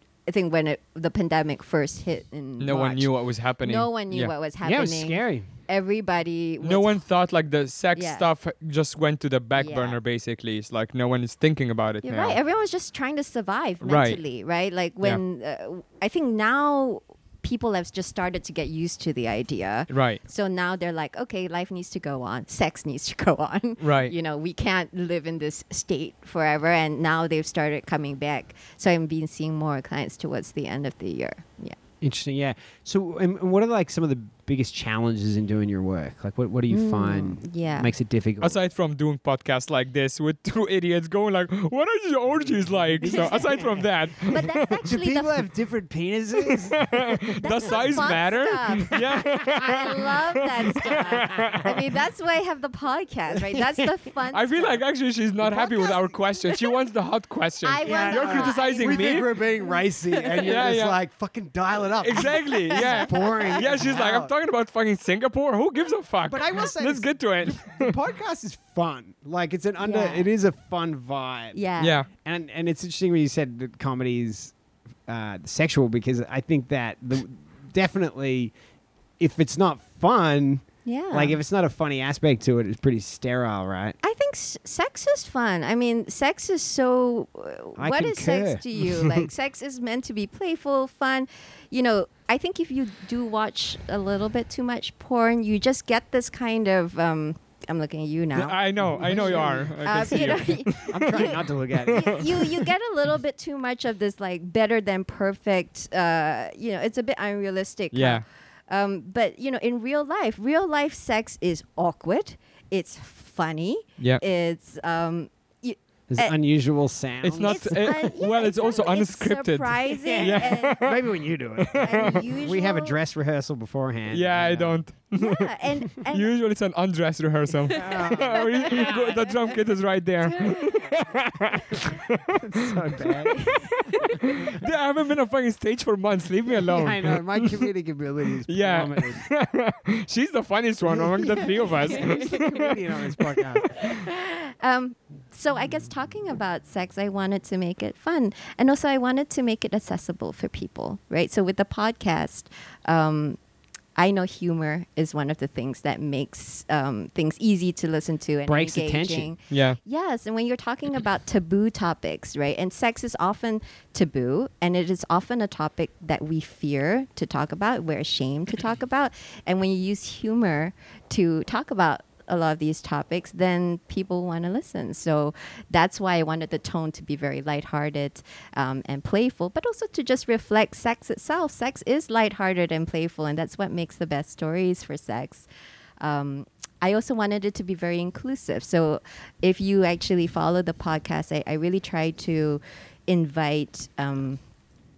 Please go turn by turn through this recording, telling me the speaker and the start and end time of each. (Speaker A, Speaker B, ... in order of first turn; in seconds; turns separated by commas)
Speaker A: 0.3-3.1, Speaker B: 2.6-4.3, Speaker A: 3.6-7.0, Speaker C: 4.6-5.5, Speaker B: 6.6-12.4, Speaker A: 7.9-8.2, Speaker A: 9.6-10.0, Speaker A: 12.0-31.8, Speaker B: 13.8-14.2, Speaker B: 19.9-20.2, Speaker B: 23.8-24.1, Speaker C: 32.0-38.6, Speaker A: 36.7-37.9, Speaker B: 38.4-44.8, Speaker C: 43.0-43.9, Speaker A: 43.0-45.4, Speaker C: 44.8-48.0, Speaker B: 46.4-51.8, Speaker A: 47.4-54.8, Speaker C: 53.5-53.9, Speaker B: 54.3-59.3, Speaker A: 55.4-56.8, Speaker A: 57.6-60.5, Speaker C: 57.8-64.3, Speaker B: 60.4-61.0, Speaker B: 62.0-67.9, Speaker A: 62.3-63.6, Speaker C: 66.2-71.6, Speaker A: 69.8-70.3, Speaker A: 71.5-72.0, Speaker B: 71.8-72.1, Speaker C: 72.2-74.5, Speaker C: 75.1-78.5, Speaker C: 79.2-84.0, Speaker A: 80.8-81.4, Speaker A: 84.0-101.4, Speaker C: 87.8-89.3, Speaker B: 98.3-101.1, Speaker C: 98.8-100.2, Speaker C: 100.9-102.3, Speaker A: 101.9-116.4, Speaker B: 102.0-102.5, Speaker B: 107.9-108.2, Speaker C: 116.1-117.8, Speaker B: 117.2-121.0, Speaker A: 117.5-120.8, Speaker C: 120.0-124.8, Speaker A: 121.7-123.0, Speaker B: 124.1-132.4, Speaker A: 125.1-126.3, Speaker C: 127.7-129.4, Speaker A: 127.9-128.9, Speaker A: 130.4-130.8, Speaker C: 132.3-134.6, Speaker A: 133.7-134.1, Speaker B: 134.1-137.7, Speaker C: 136.7-139.2, Speaker B: 138.5-143.9, Speaker C: 140.9-143.8, Speaker A: 143.7-153.4, Speaker A: 153.9-185.5, Speaker C: 158.4-159.3, Speaker B: 159.5-159.8, Speaker A: 186.0-194.4